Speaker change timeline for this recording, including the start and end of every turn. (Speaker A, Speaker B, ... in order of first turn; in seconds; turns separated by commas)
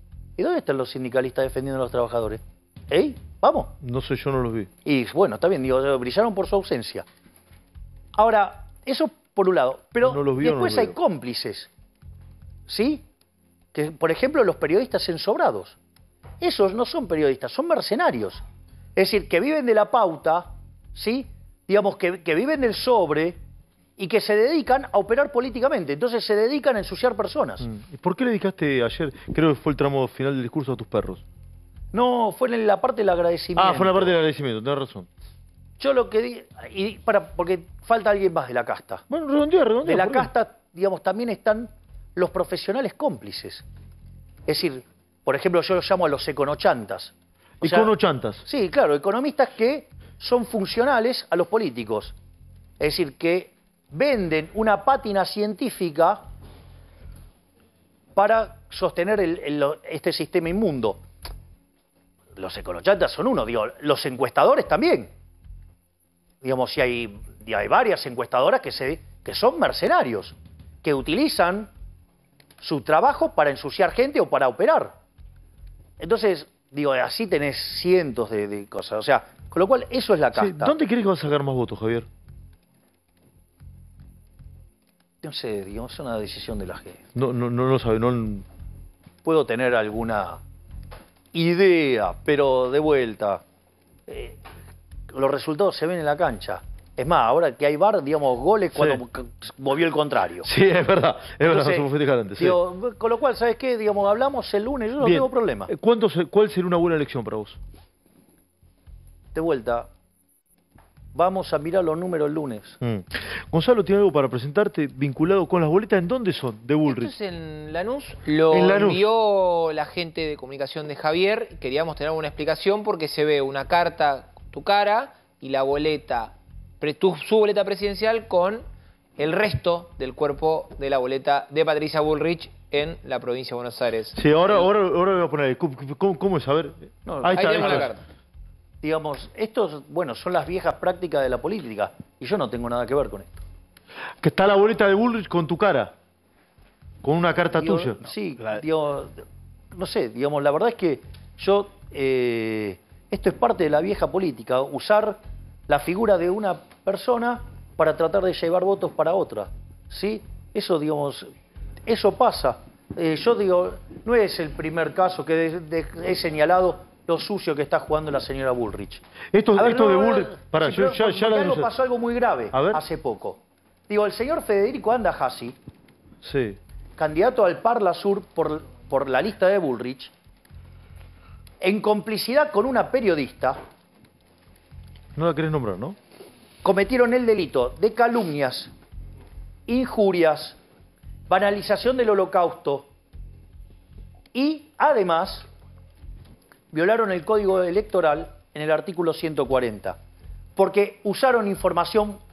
Speaker A: 0.4-3.7, Speaker B: 3.8-4.7, Speaker A: 4.8-7.1, Speaker A: 8.2-11.7, Speaker B: 10.0-11.0, Speaker A: 12.7-13.1, Speaker A: 13.7-15.8, Speaker A: 16.4-18.4, Speaker A: 19.0-23.4, Speaker A: 24.0-27.7, Speaker B: 27.6-31.2, Speaker A: 31.9-34.1, Speaker B: 33.6-35.1, Speaker A: 35.8-39.0, Speaker B: 39.1-40.3, Speaker A: 39.8-43.6, Speaker A: 44.5-47.9, Speaker B: 47.6-48.4, Speaker A: 48.5-52.1, Speaker A: 52.8-56.2, Speaker A: 58.1-61.0, Speaker A: 62.4-65.1, Speaker A: 66.4-71.7, Speaker A: 72.6-75.0, Speaker A: 76.0-80.8, Speaker B: 80.3-82.1, Speaker A: 85.2-87.0, Speaker B: 87.2-88.5, Speaker A: 89.2-90.4, Speaker A: 91.3-93.4, Speaker A: 94.1-94.4, Speaker A: 95.1-100.5, Speaker B: 98.8-99.0, Speaker B: 100.4-102.6, Speaker A: 101.4-105.7, Speaker B: 105.0-107.6, Speaker A: 109.3-109.9, Speaker A: 111.1-112.8, Speaker B: 112.8-117.1, Speaker C: 116.9-128.7, Speaker B: 118.5-119.0, Speaker C: 129.2-134.3, Speaker B: 134.2-137.9, Speaker A: 137.1-137.9, Speaker C: 137.3-138.0, Speaker A: 138.8-143.4, Speaker B: 144.2-145.9, Speaker B: 147.0-148.1, Speaker A: 147.6-161.3, Speaker A: 161.9-169.0, Speaker B: 169.3-171.7, Speaker A: 169.6-175.6, Speaker B: 172.5-172.8, Speaker B: 176.2-176.6, Speaker A: 177.0-180.1, Speaker A: 181.6-183.6, Speaker B: 185.2-186.0, Speaker A: 186.6-188.7, Speaker A: 189.7-190.6, Speaker A: 191.3-192.9, Speaker A: 194.3-195.5, Speaker A: 196.7-200.0, Speaker A: 200.6-202.2